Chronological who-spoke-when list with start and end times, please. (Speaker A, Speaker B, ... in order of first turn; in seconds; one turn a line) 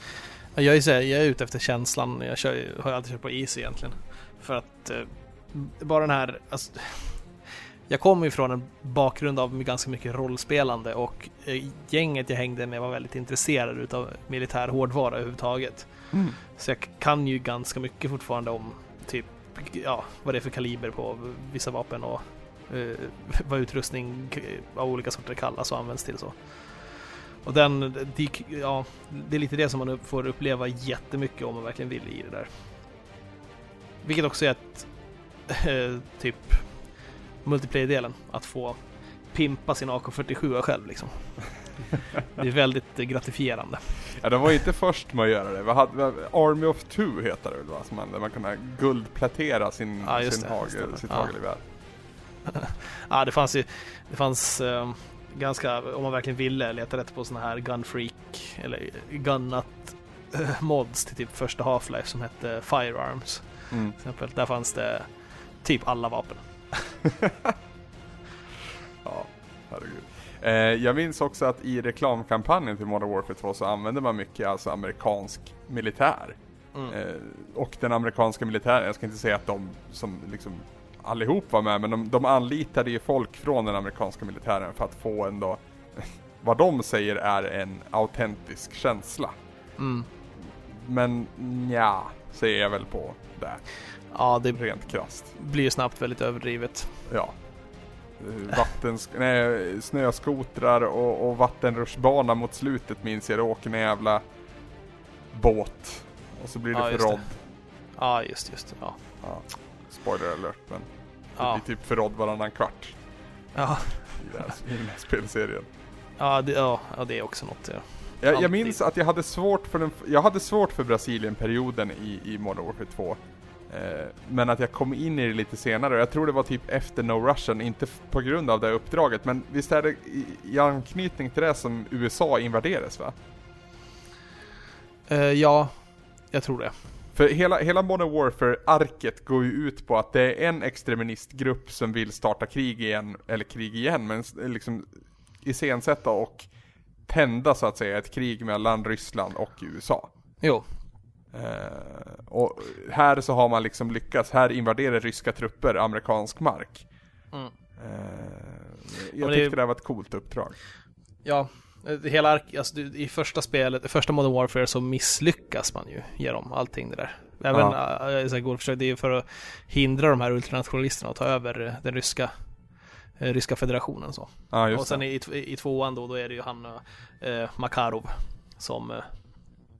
Speaker A: 0.5-32.7
Speaker B: 16.1-16.4
Speaker A: 34.0-44.2
Speaker B: 44.2-51.6
Speaker A: 50.0-51.8
Speaker A: 52.5-67.0
Speaker B: 63.7-64.0
Speaker B: 69.0-89.3
Speaker A: 89.8-90.1
Speaker B: 90.4-95.3
Speaker A: 94.1-97.0
Speaker B: 97.1-104.2
Speaker B: 105.3-107.3
Speaker A: 106.7-109.0
Speaker B: 109.2-113.0
Speaker A: 113.5-114.5
Speaker B: 114.2-115.7
Speaker A: 116.2-118.8
Speaker B: 118.2-133.2
Speaker A: 135.1-136.8
Speaker B: 137.1-146.5
Speaker B: 147.1-150.1
Speaker B: 151.3-156.9
Speaker B: 157.8-160.6
Speaker A: 159.2-159.6
Speaker A: 161.2-172.3
Speaker B: 167.5-167.8
Speaker A: 173.1-179.6
Speaker B: 174.5-175.0